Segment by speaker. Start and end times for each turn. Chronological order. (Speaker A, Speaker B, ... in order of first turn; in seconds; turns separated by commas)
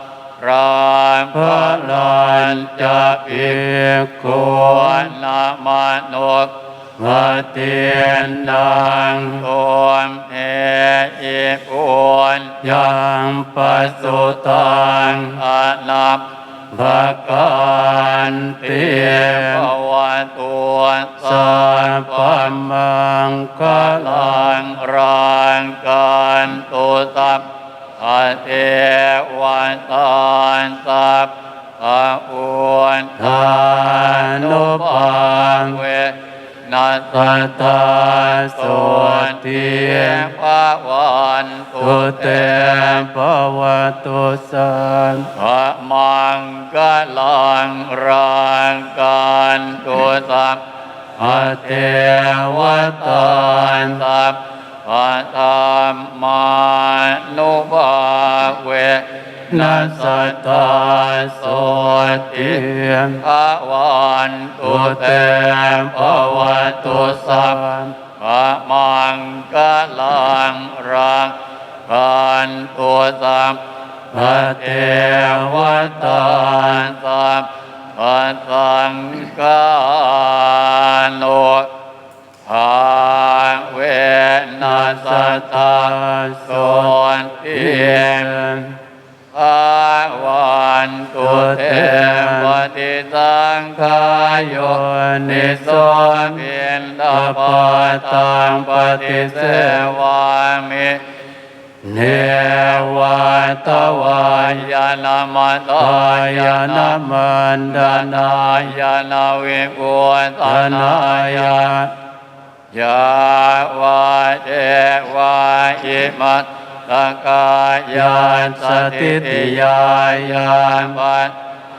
Speaker A: 0.4-3.6, Speaker B: 1.3-5.0, Speaker A: 4.3-6.5, Speaker B: 7.0-9.5, Speaker A: 9.3-12.6, Speaker B: 12.6-15.4, Speaker A: 13.7-16.3, Speaker B: 16.7-19.7, Speaker A: 16.8-22.5, Speaker B: 21.2-24.3, Speaker A: 23.6-27.5, Speaker A: 28.0-43.0, Speaker B: 33.2-35.8, Speaker B: 37.1-40.2, Speaker B: 41.8-45.3, Speaker A: 45.4-50.6, Speaker B: 51.2-54.0, Speaker A: 51.2-62.6, Speaker B: 59.5-63.2, Speaker A: 63.2-67.6, Speaker B: 64.6-67.9, Speaker A: 68.2-73.6, Speaker B: 74.1-76.9, Speaker A: 74.1-81.7, Speaker A: 82.5-88.3, Speaker B: 84.6-86.9, Speaker B: 87.5-88.8, Speaker A: 89.3-101.0, Speaker B: 91.2-92.7, Speaker B: 94.2-96.4, Speaker B: 97.1-99.9, Speaker B: 101.8-104.6, Speaker A: 103.8-107.0, Speaker B: 105.8-108.4, Speaker A: 107.7-111.6, Speaker B: 110.4-111.9, Speaker A: 112.7-121.4, Speaker B: 117.9-120.8